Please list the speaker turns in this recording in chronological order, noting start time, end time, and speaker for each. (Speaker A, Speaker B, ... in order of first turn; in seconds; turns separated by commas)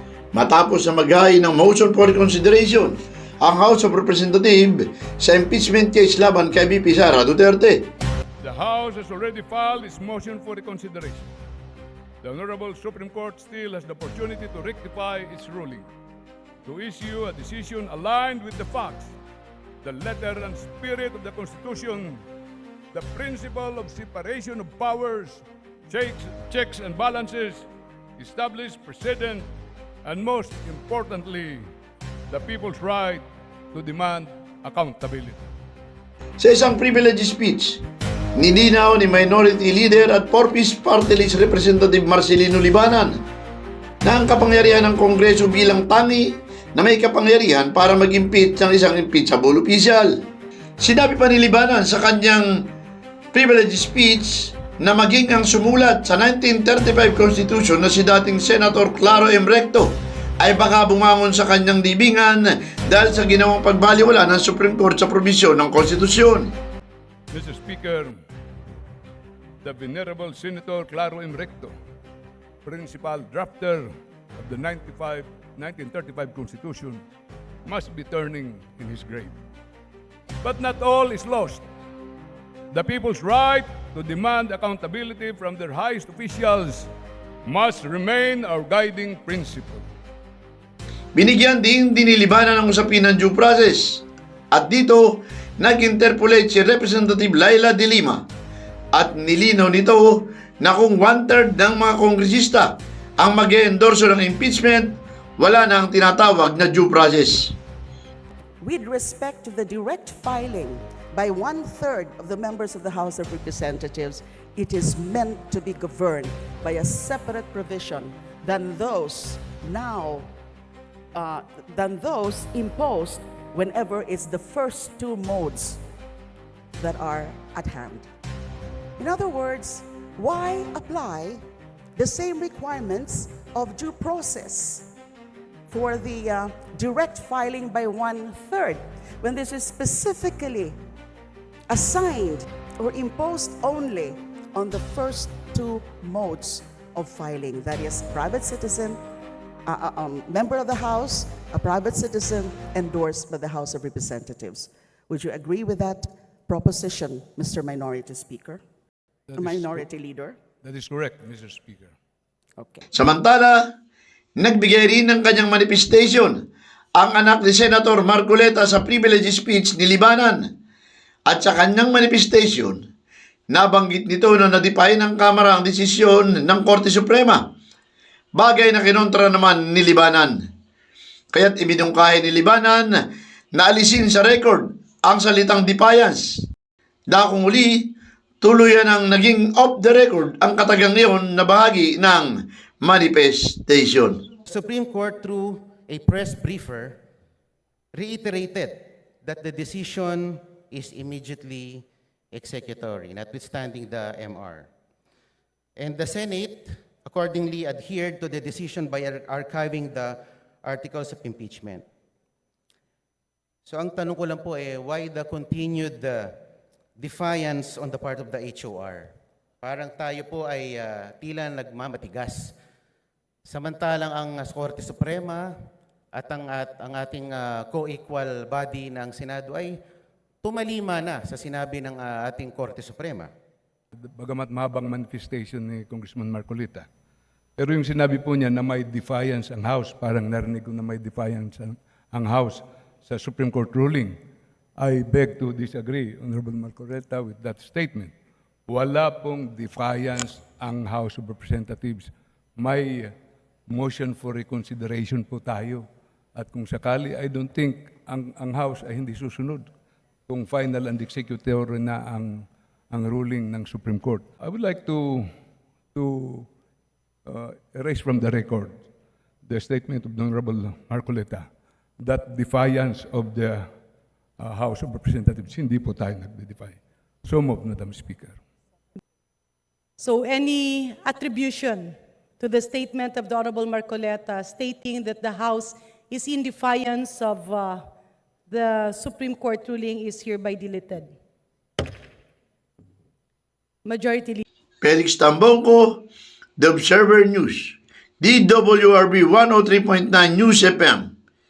Speaker A: 0.3-7.9, Speaker B: 8.4-11.3, Speaker B: 12.2-15.8, Speaker B: 16.6-19.2, Speaker B: 19.8-22.2, Speaker B: 22.9-27.7, Speaker B: 28.2-29.5, Speaker B: 30.0-31.7, Speaker B: 32.3-35.5, Speaker A: 36.4-37.8, Speaker A: 38.4-43.2, Speaker A: 44.0-50.2, Speaker A: 50.8-52.5, Speaker A: 53.3-66.5, Speaker B: 67.3-68.2, Speaker B: 69.6-71.7, Speaker B: 72.7-77.0, Speaker B: 77.7-79.3, Speaker B: 80.4-81.7, Speaker B: 82.7-86.9, Speaker B: 87.5-89.9, Speaker A: 91.2-98.3, Speaker A: 98.9-107.5, Speaker C: 108.6-120.3, Speaker C: 121.2-125.8, Speaker C: 126.8-128.1, Speaker C: 129.0-131.4, Speaker C: 132.0-134.9, Speaker C: 135.7-140.8, Speaker C: 141.7-149.0, Speaker C: 149.7-158.6, Speaker B: 159.3-159.9, Speaker C: 159.4-160.4, Speaker B: 160.6-161.9, Speaker C: 162.6-162.9, Speaker A: 162.9-163.6, Speaker A: 164.4-166.4, Speaker A: 167.0-170.5, Speaker A: 171.3-172.8, Speaker A: 173.5-177.4, Speaker A: 178.4-180.4, Speaker A: 181.3-183.0, Speaker A: 183.6-186.4, Speaker A: 187.1-187.9, Speaker A: 188.4-194.2, Speaker D: 194.5-197.0, Speaker D: 197.9-204.7, Speaker D: 205.8-211.8, Speaker D: 213.7-216.3, Speaker D: 217.0-219.1, Speaker D: 219.6-222.6, Speaker D: 223.5-225.4, Speaker D: 226.1-229.8, Speaker D: 230.4-233.3, Speaker B: 233.9-236.9, Speaker B: 237.6-244.2, Speaker B: 244.8-248.1, Speaker B: 248.7-253.1, Speaker B: 253.7-259.7, Speaker B: 260.3-265.3, Speaker B: 265.9-266.5, Speaker B: 267.3-268.8, Speaker B: 269.4-271.5, Speaker B: 272.0-273.7, Speaker B: 274.4-278.4, Speaker E: 280.0-287.8, Speaker E: 288.5-291.1, Speaker E: 293.9-294.4, Speaker A: 294.8-296.0, Speaker A: 296.6-301.1